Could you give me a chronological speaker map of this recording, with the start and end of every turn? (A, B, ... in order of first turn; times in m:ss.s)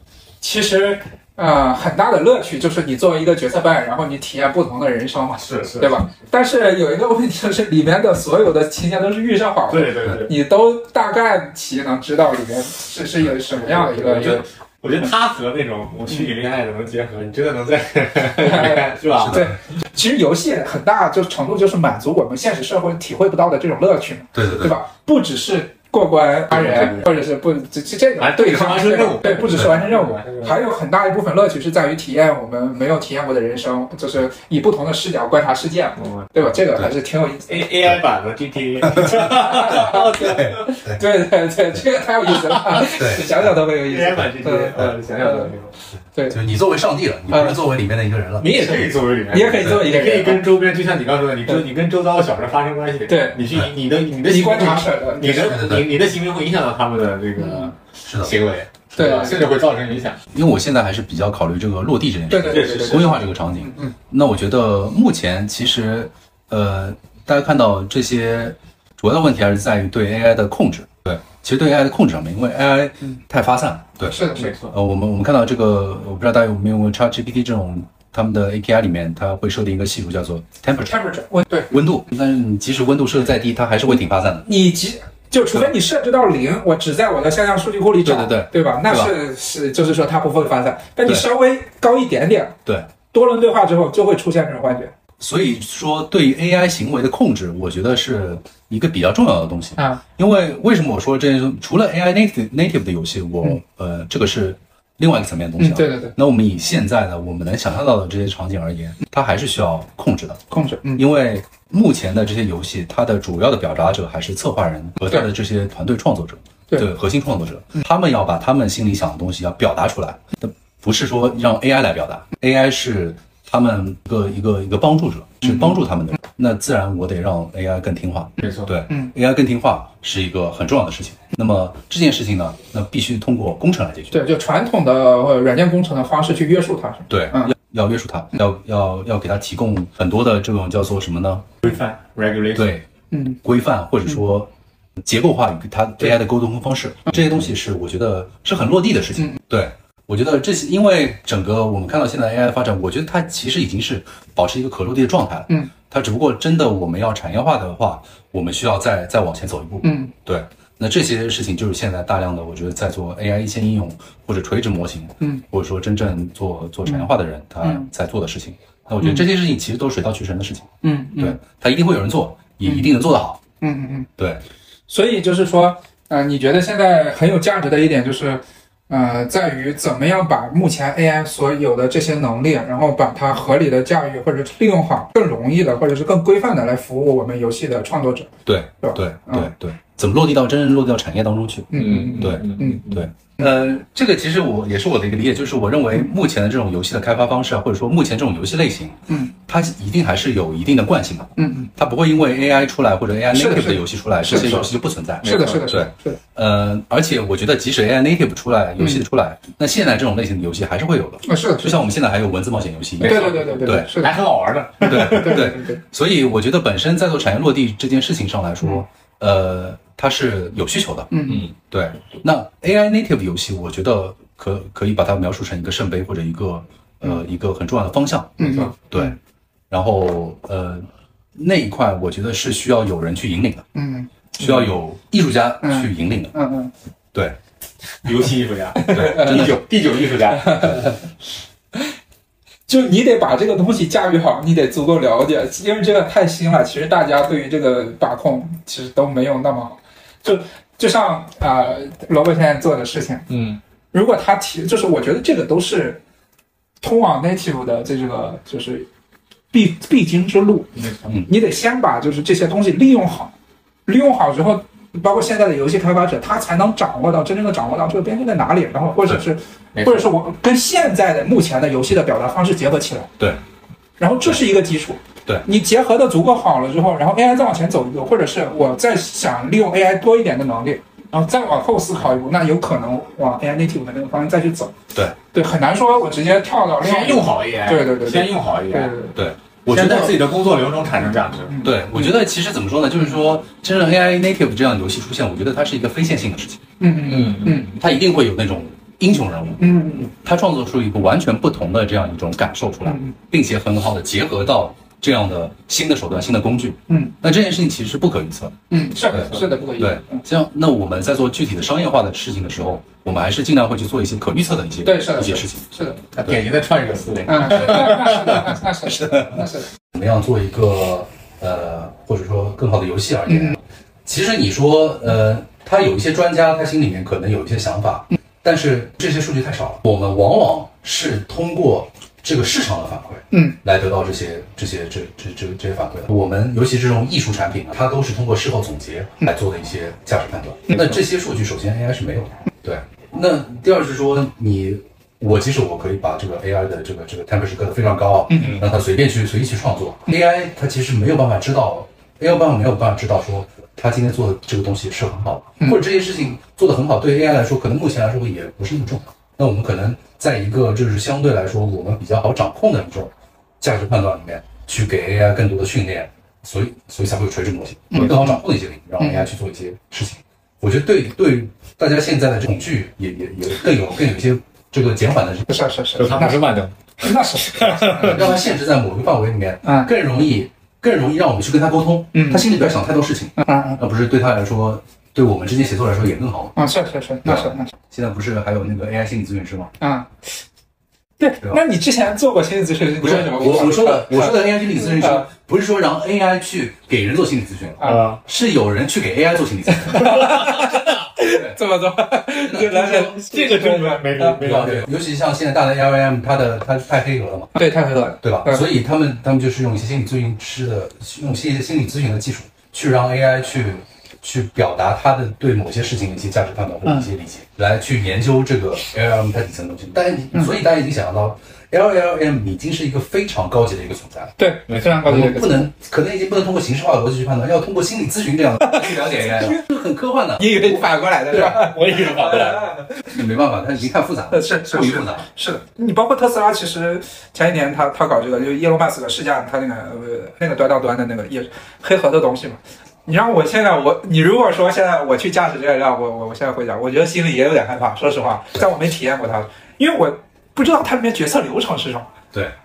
0:00.4-0:14.4 A
0:05.4-0:06.0 B
0:09.7-0:10.3 B
0:13.5-0:19.5 B
0:18.4-0:37.7 A
0:19.1-0:19.5 C
0:24.3-0:24.8 C
0:26.5-0:27.2 B
0:28.2-0:30.6 B
0:36.0-0:36.4 B
0:37.5-0:40.7 B
0:38.9-0:41.0 C
0:39.2-0:45.5 A
0:42.3-0:42.9 B
0:43.0-0:43.5 C
0:43.8-0:45.7 B
0:46.3-0:48.8 C
0:47.3-0:47.6 A
0:48.4-1:00.2 B
0:48.6-0:50.4 A
0:49.6-0:49.9 C
0:53.1-0:53.4 A
0:54.2-0:55.7 A
0:55.4-0:55.9 C
0:57.4-0:57.7 A
0:58.0-0:58.3 C
0:59.0-0:59.4 A
1:00.3-1:21.0 C
1:02.3-1:03.9 A
1:02.4-1:03.3 B
1:14.0-1:14.6 A
1:14.3-1:14.7 B
1:20.8-1:21.7 A
1:21.7-1:24.5 C
1:24.4-1:32.6 A
1:28.0-1:29.1 C
1:33.1-1:34.9 A
1:35.2-1:50.4 C
1:45.6-1:46.1 A
1:50.5-1:51.0 A
1:51.0-2:14.2 C
2:05.4-2:05.8 A
2:08.4-2:08.7 B
2:14.1-2:17.5 A
2:17.1-2:21.5 C
2:21.6-2:22.7 B
2:22.5-2:22.8 C
2:23.1-2:23.4 A
2:23.4-2:53.4 C
2:39.8-2:40.1 A
2:47.6-2:47.9 A
2:50.8-2:51.4 A
2:52.6-2:52.9 A
2:53.6-2:54.1 A
2:54.2-2:54.4 C
2:54.9-3:09.5 A
3:08.4-3:33.9 C
3:11.7-3:12.8 A
3:11.8-3:13.0 B
3:21.4-3:21.7 A
3:23.3-3:24.6 A
3:24.3-3:25.7 B
3:25.2-3:26.2 A
3:31.2-3:31.8 A
3:33.0-3:35.6 B
3:33.0-3:34.2 A
3:34.8-3:35.8 A
3:34.8-3:49.2 C
3:41.1-3:41.5 A
3:48.4-3:49.2 A
3:48.4-3:48.7 B
3:49.7-3:53.7 C
3:53.7-3:54.6 A
3:54.4-3:56.3 C
3:55.6-3:56.7 A
3:58.0-4:00.8 B
3:58.8-3:59.5 A
3:58.9-3:59.6 C
4:00.3-4:00.9 A
4:02.7-4:13.3 A
4:13.3-4:13.6 B
4:13.9-4:16.0 A
4:16.8-4:18.9 A
4:19.5-4:23.3 A
4:20.8-4:21.2 B
4:23.8-4:33.1 A
4:29.7-4:30.1 B
4:34.0-4:44.7 A
4:45.3-4:49.1 A
4:46.8-4:49.1 B
4:49.1-4:50.2 C
4:49.7-4:51.6 B
4:51.5-4:52.1 A
4:51.6-4:56.6 C
4:56.8-4:57.7 A
4:57.0-4:57.7 B
4:57.8-5:08.5 C
4:59.6-5:00.1 A
5:02.8-5:03.1 A
5:06.9-5:07.1 A
5:08.7-5:10.2 A
5:09.1-5:15.7 C
5:14.8-5:16.0 A
5:16.1-5:18.4 B
5:17.3-5:19.7 A
5:17.4-5:17.8 C
5:19.1-5:19.4 C
5:19.9-6:15.5 C
5:23.3-5:23.6 A
5:33.3-5:33.6 A
5:48.3-5:48.6 A
6:07.9-6:08.4 A
6:09.0-6:09.3 A
6:15.5-6:16.4 A
6:16.0-6:18.2 B
6:17.0-6:18.4 A
6:18.0-6:26.5 C
6:19.6-6:19.9 A
6:22.1-6:22.6 A
6:23.4-6:23.8 A
6:26.6-6:27.7 A
6:27.2-6:29.7 C
6:29.8-6:30.1 A
6:31.2-6:35.3 A
6:33.0-6:40.5 C
6:37.8-6:38.2 B
6:39.9-6:44.4 A
6:41.2-6:41.6 C
6:42.4-6:43.2 C
6:43.0-6:44.9 B
6:44.4-6:47.5 C
6:47.5-6:48.6 A
6:48.2-7:04.3 C
7:04.4-7:05.7 A
7:04.7-7:05.0 B
7:05.0-7:11.5 C
7:08.6-7:09.6 A
7:10.4-7:12.9 A
7:11.3-7:12.7 B
7:13.1-7:15.3 C
7:14.3-7:32.1 A